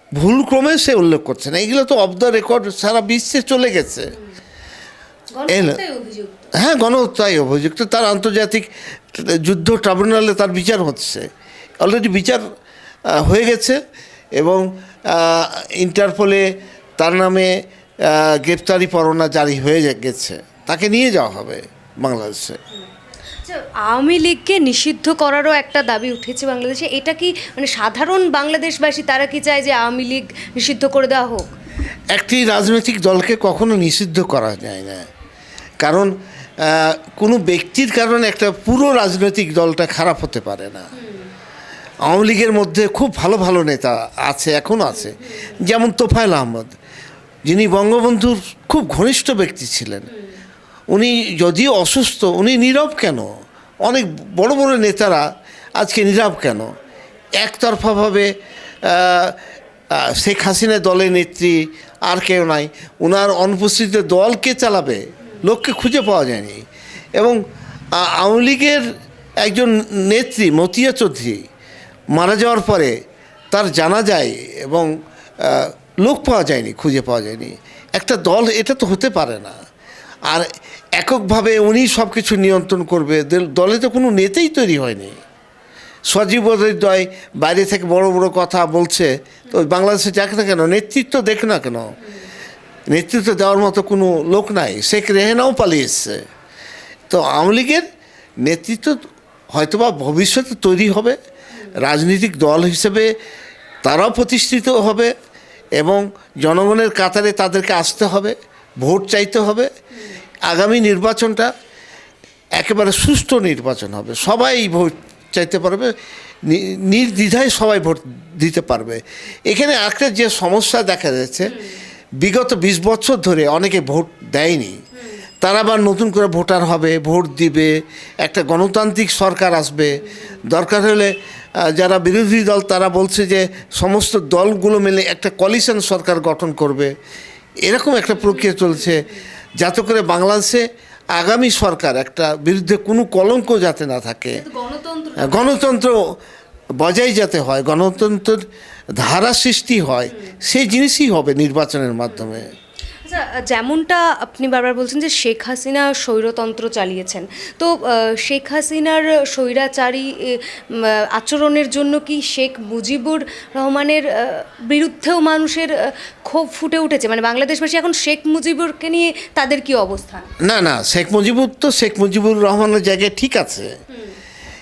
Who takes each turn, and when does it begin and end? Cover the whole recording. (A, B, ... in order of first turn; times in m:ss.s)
0:00.2-0:04.1 A
0:05.3-0:06.5 B
0:05.5-0:05.8 A
0:06.6-0:11.3 A
0:11.8-0:12.4 A
0:13.1-0:13.8 A
0:14.4-0:16.4 A
0:17.0-0:22.6 A
0:23.4-0:31.5 B
0:32.1-0:35.0 A
0:35.8-0:40.9 A
0:41.0-0:41.3 B
0:42.0-0:46.7 A
0:44.9-0:45.6 B
0:47.5-0:50.1 A
0:50.9-0:53.3 A
0:53.8-0:56.7 A
0:57.4-0:58.3 A
0:58.8-0:59.4 A
0:59.9-1:07.4 A
1:07.9-1:08.8 A
1:09.4-1:11.4 A
1:12.1-1:12.9 A
1:13.5-1:19.6 A
1:20.3-1:25.2 A
1:26.1-1:31.9 A
1:32.9-1:36.2 A
1:37.1-1:37.8 A
1:38.4-1:39.0 A
1:39.5-1:41.2 A
1:41.8-1:43.1 A
1:43.8-1:45.1 A
1:45.8-1:49.7 A
1:50.4-1:51.5 A
1:52.6-1:55.9 A
1:56.4-2:01.5 A
2:02.2-2:04.8 A
2:05.4-2:16.9 A
2:10.0-2:10.4 B
2:17.6-2:19.0 A
2:18.2-2:19.1 B
2:19.6-2:24.4 A
2:24.3-2:25.6 B
2:25.2-2:26.0 A
2:26.8-2:28.4 A
2:29.0-2:32.5 A
2:33.0-2:50.3 B
2:50.4-2:53.7 A